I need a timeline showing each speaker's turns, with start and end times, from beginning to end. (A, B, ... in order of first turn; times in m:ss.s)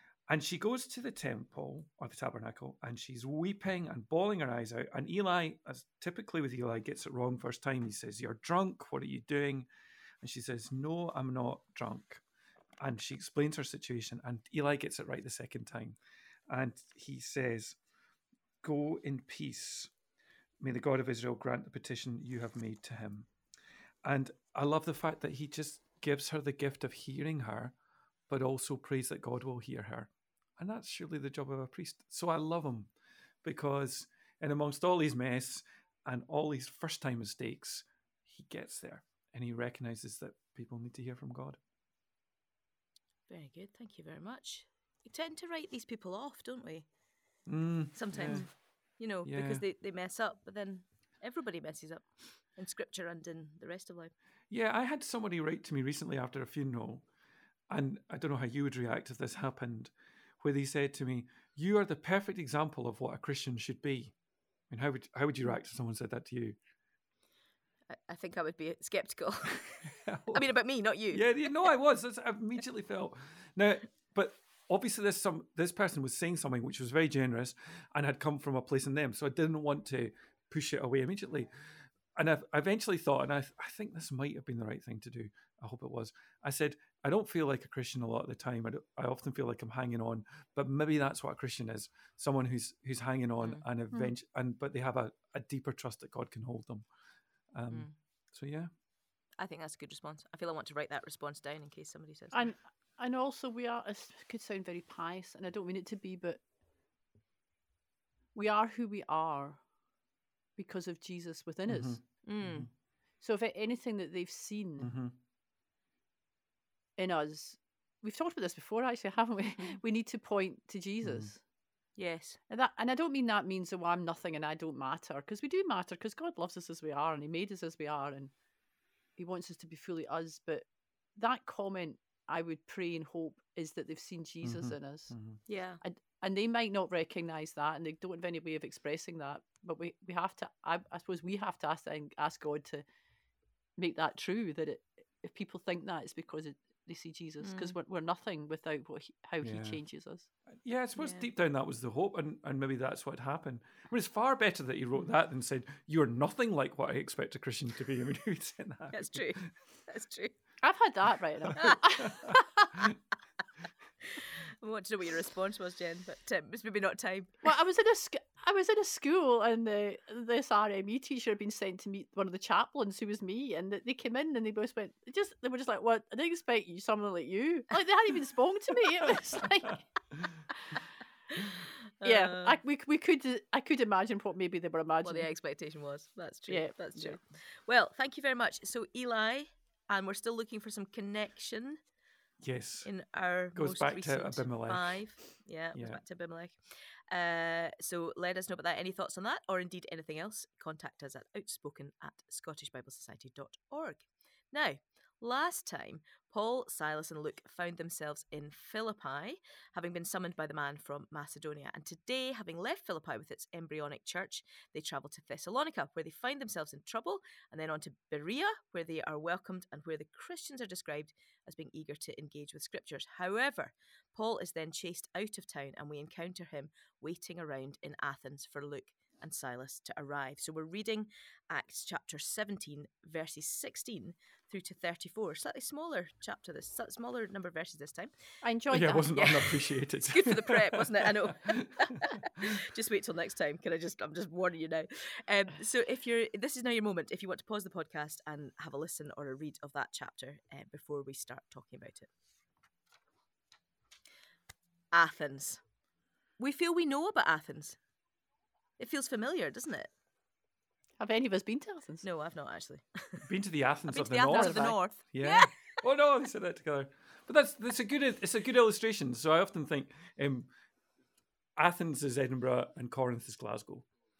0:00.3-0:09.7 A
0:10.2-0:12.2 A
0:12.8-0:16.0 A
0:16.5-0:17.8 A
0:18.6-0:19.9 A
0:20.6-0:23.3 A
0:24.0-0:27.7 A
0:28.3-0:32.9 A
0:33.4-0:41.6 A
0:43.3-0:46.8 B
0:47.5-0:48.5 A
0:47.9-0:54.1 B
0:49.2-0:49.6 A
0:54.5-0:57.0 A
0:57.7-1:04.1 A
1:04.7-1:06.6 A
1:07.9-1:11.6 B
1:09.8-1:10.4 A
1:11.1-1:21.5 A
1:22.1-1:36.9 A
1:33.4-1:34.1 B
1:37.5-1:38.7 A
1:37.7-1:38.0 B
1:39.4-1:42.5 B
1:42.3-1:46.4 C
1:48.3-1:49.6 C
1:50.6-1:52.0 C
1:51.7-1:52.7 A
1:52.2-1:52.7 B
1:53.2-1:54.9 C
1:54.8-1:55.2 A
1:57.0-2:01.4 C
2:01.0-2:01.3 A
2:02.0-2:02.4 B
2:02.5-2:08.3 C
2:09.2-2:10.6 C
2:11.2-2:15.1 C
2:14.4-2:15.4 A
2:15.5-2:15.8 B
2:15.8-2:22.8 C
2:23.8-2:30.3 C
2:27.4-2:27.7 B
2:29.4-2:29.8 A
2:30.6-2:39.5 A
2:31.0-2:31.2 B
2:38.9-2:40.3 B
2:40.6-2:42.9 C
2:41.5-2:42.9 A
2:41.5-2:41.8 B
2:44.0-2:47.4 B
2:47.4-2:59.8 C
3:01.3-3:02.6 B
3:02.0-3:05.3 C
3:05.0-3:11.8 B
3:06.5-3:07.2 C
3:12.4-3:12.9 A
3:12.8-3:16.6 B
3:13.5-3:15.1 A
3:15.7-3:16.0 A
3:17.1-3:58.1 B
3:58.4-3:59.4 C
3:58.7-4:02.6 A
3:59.1-4:12.1 B
4:14.9-4:15.6 B
4:16.4-4:17.8 B
4:18.8-4:19.9 B
4:21.0-4:22.0 C
4:22.0-4:23.3 B
4:23.2-4:30.5 A
4:23.9-4:25.5 B
4:24.3-4:24.8 C
4:31.6-4:33.9 A